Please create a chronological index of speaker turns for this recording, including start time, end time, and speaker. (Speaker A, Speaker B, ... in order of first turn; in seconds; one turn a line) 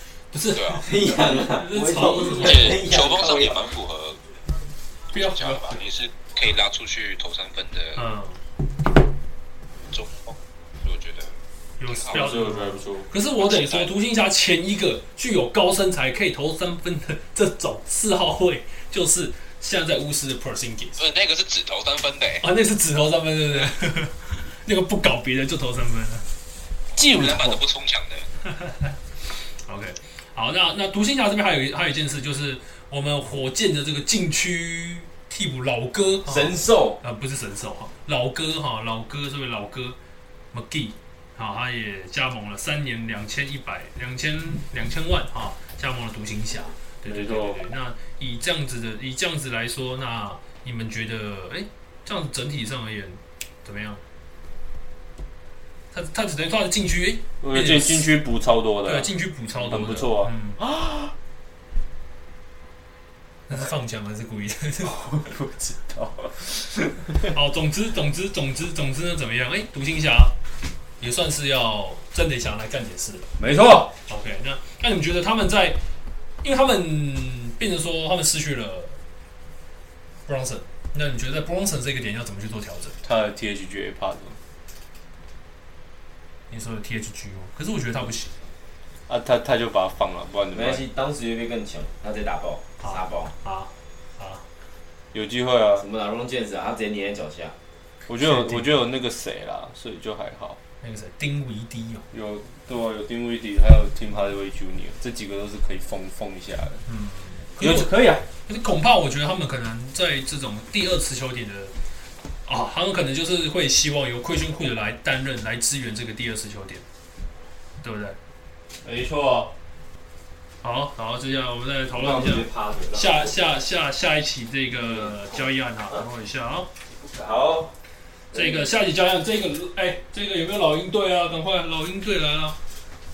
Speaker A: 0.3-2.8
Speaker B: 0.5-0.8
Speaker C: 0.7-3.7
Speaker B: 2.4-4.2
Speaker A: 5.1-5.8
Speaker B: 5.1-8.0
Speaker A: 8.0-8.4
Speaker B: 9.9-11.3
Speaker A: 11.8-21.0
Speaker B: 11.9-12.1
Speaker D: 12.1-13.1
Speaker B: 13.4-13.9
Speaker B: 21.0-22.4
Speaker A: 22.4-26.3
Speaker D: 26.9-27.6
Speaker B: 27.0-28.3
Speaker A: 28.5-28.9
Speaker A: 29.6-40.0
Speaker C: 36.2-37.0
Speaker A: 40.5-54.0
Speaker D: 47.0-47.6
Speaker A: 55.9-58.1
Speaker D: 57.4-61.1
Speaker A: 58.9-60.6
Speaker A: 63.5-65.0
Speaker D: 64.8-67.2
Speaker A: 67.1-70.3
Speaker A: 71.0-73.3
Speaker D: 73.4-73.9
Speaker A: 74.1-75.8
Speaker A: 76.4-79.0
Speaker A: 80.2-82.9
Speaker D: 83.0-84.4
Speaker A: 86.5-88.3
Speaker D: 89.1-90.8
Speaker C: 90.5-93.3
Speaker A: 92.8-94.4
Speaker D: 95.1-95.8
Speaker C: 95.8-97.5
Speaker D: 98.1-100.6
Speaker A: 98.2-98.7
Speaker A: 100.8-102.0
Speaker D: 102.1-106.8
Speaker A: 106.8-107.9
Speaker D: 107.6-108.2
Speaker A: 108.5-111.7
Speaker A: 112.5-116.8
Speaker A: 117.8-118.2
Speaker D: 118.8-119.5
Speaker A: 120.6-126.7
Speaker D: 121.9-123.3
Speaker D: 124.8-125.4
Speaker C: 127.1-127.7
Speaker D: 127.2-127.7
Speaker A: 128.3-132.6